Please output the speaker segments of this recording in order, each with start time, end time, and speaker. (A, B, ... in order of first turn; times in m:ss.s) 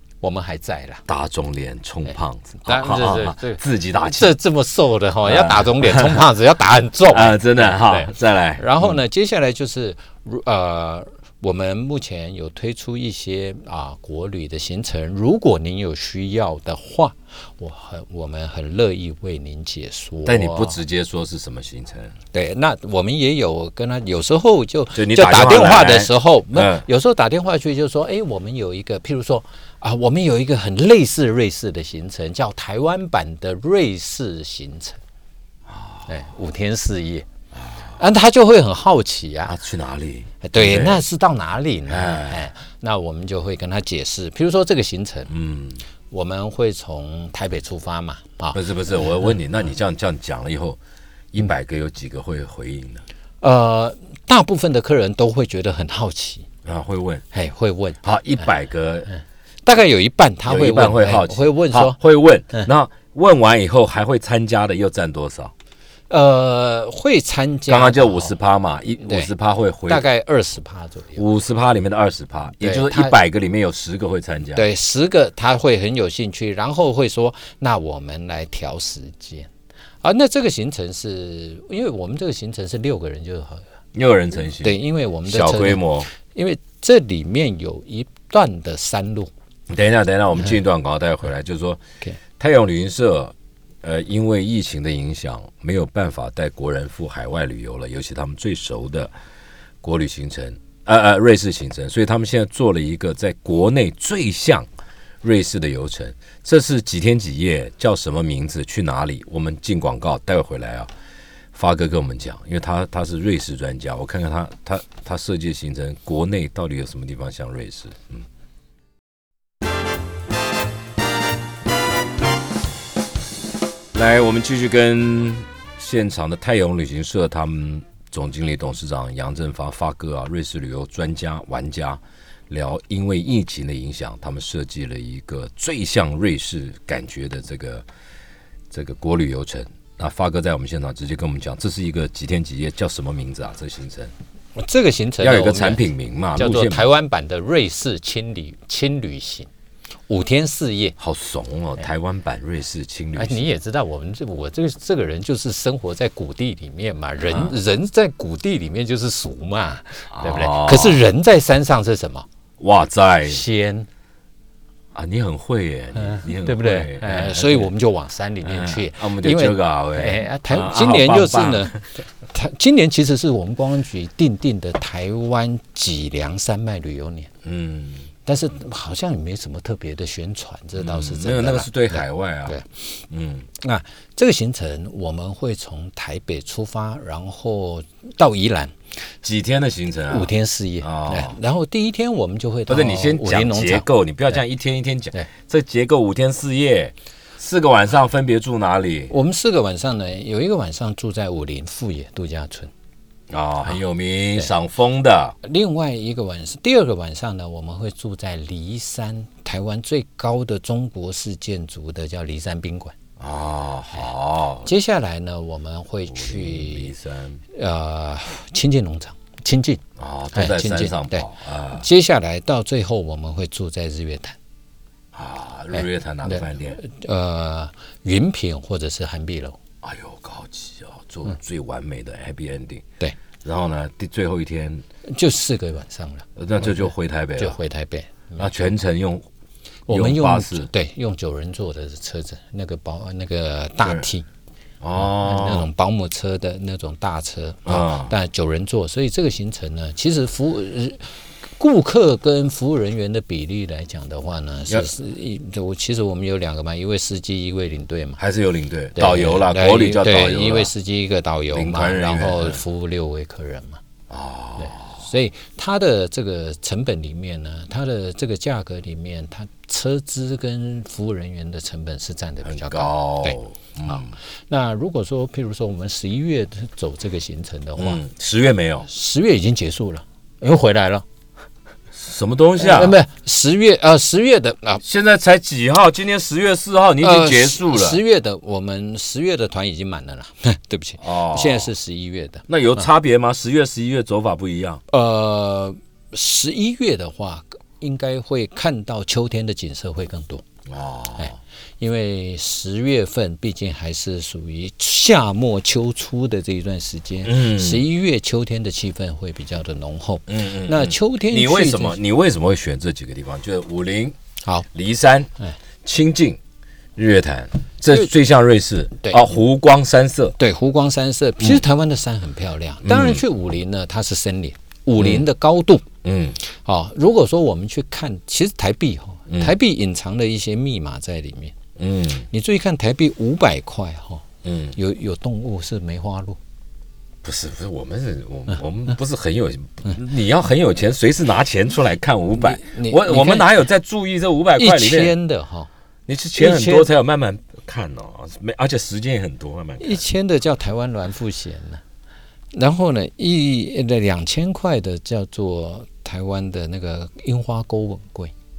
0:00.2-0:01.0 A
0:01.1-0:04.3 B
0:02.6-0:20.8 A
0:05.2-0:06.2 B
0:07.1-0:09.0 B
0:20.2-0:22.1 B
0:22.3-0:35.0 A
0:24.9-0:26.8 B
0:35.7-0:36.1 B
0:36.1-0:37.2 A
0:37.5-0:37.9 B
0:37.9-0:39.6 A
0:39.5-0:41.0 B
0:40.4-0:45.3 A
0:41.9-0:42.4 B
0:45.3-0:45.8 B
0:46.1-0:48.6 A
0:48.5-0:50.8 B
0:51.3-0:53.0 B
0:53.4-0:56.4 A
0:56.6-0:57.2 B
0:57.3-0:58.0 A
0:58.0-0:59.1 B
0:59.6-1:02.0 A
1:00.4-1:05.5 B
1:06.1-1:08.3 A
1:07.7-1:10.0 B
1:09.0-1:09.3 A
1:09.9-1:11.2 A
1:11.2-1:14.6 B
1:12.6-1:13.2 A
1:14.5-1:19.5 A
1:20.0-1:23.6 A
1:23.9-1:26.1 B
1:24.6-1:29.3 A
1:29.7-1:31.8 B
1:32.4-1:39.1 B
1:39.8-1:44.7 B
1:45.2-1:50.9 B
1:51.5-1:58.2 B
2:03.9-2:17.8 B
2:18.7-2:24.1 B
2:24.6-2:25.8 A
2:25.2-2:26.8 B
2:26.4-2:29.5 A
2:30.1-2:31.0 A
2:31.0-2:33.5 B
2:33.1-2:42.2 A
2:37.3-2:37.5 B
2:40.1-2:41.0 B
2:42.6-2:43.4 B
2:43.3-2:43.9 A
2:44.9-2:47.7 B
2:46.0-2:51.7 A
2:48.4-2:51.8 B
2:52.3-2:57.3 A
2:57.4-2:58.1 B
2:58.2-3:02.7 A
3:00.8-3:02.6 B
3:03.1-3:03.5 B
3:03.6-3:08.7 A
3:09.2-3:11.3 B
3:10.1-3:13.8 A
3:12.7-3:19.1 B
3:19.1-3:22.7 A
3:23.3-3:25.4 B
3:25.4-3:33.0 A
3:33.2-3:34.7 B
3:34.6-3:36.9 A
3:36.1-3:37.4 B
3:37.5-3:39.8 A
3:40.0-3:41.8 B
3:40.3-3:44.4 A
3:45.1-3:46.8 B
3:45.8-3:49.6 A
3:49.8-3:52.8 B
3:53.4-3:54.8 B
3:55.1-3:58.5 A
3:56.4-3:57.6 B
3:58.4-3:59.2 B
3:59.9-4:04.2 A
3:59.9-4:00.7 B
4:04.8-4:05.7 B
4:05.0-4:11.0 A
4:07.6-4:08.1 B
4:11.6-4:18.2 A
4:18.2-4:20.7 B
4:19.0-4:23.8 A
4:21.5-4:22.6 B
4:24.1-4:25.0 B
4:24.6-4:33.4 A
4:32.4-4:34.1 B
4:33.9-4:38.0 A
4:37.8-4:38.9 B
4:38.9-4:41.0 A
4:41.9-4:43.0 B
4:42.6-4:44.8 A
4:44.8-4:48.0 B
4:47.0-4:52.4 A
4:51.0-4:51.7 B
4:52.5-4:54.8 B
4:54.9-5:00.4 A
5:00.7-5:01.4 B
5:01.8-5:12.0 A
5:07.2-5:07.8 B
5:10.3-5:14.2 B
5:14.7-5:15.3 B
5:15.8-5:16.4 B
5:17.0-5:20.4 B
5:20.4-5:25.8 A
5:22.8-5:23.2 B
5:25.0-5:25.2 B
5:26.0-5:26.4 B
5:26.4-5:31.5 A
5:31.8-5:32.3 B
5:32.3-5:36.4 A
5:34.4-5:34.7 B
5:37.2-5:45.1 B
5:42.4-5:43.5 A
5:44.6-5:45.7 A
5:46.1-5:50.0 B
5:46.4-5:46.9 A
5:49.8-5:51.8 A
5:52.5-5:58.3 A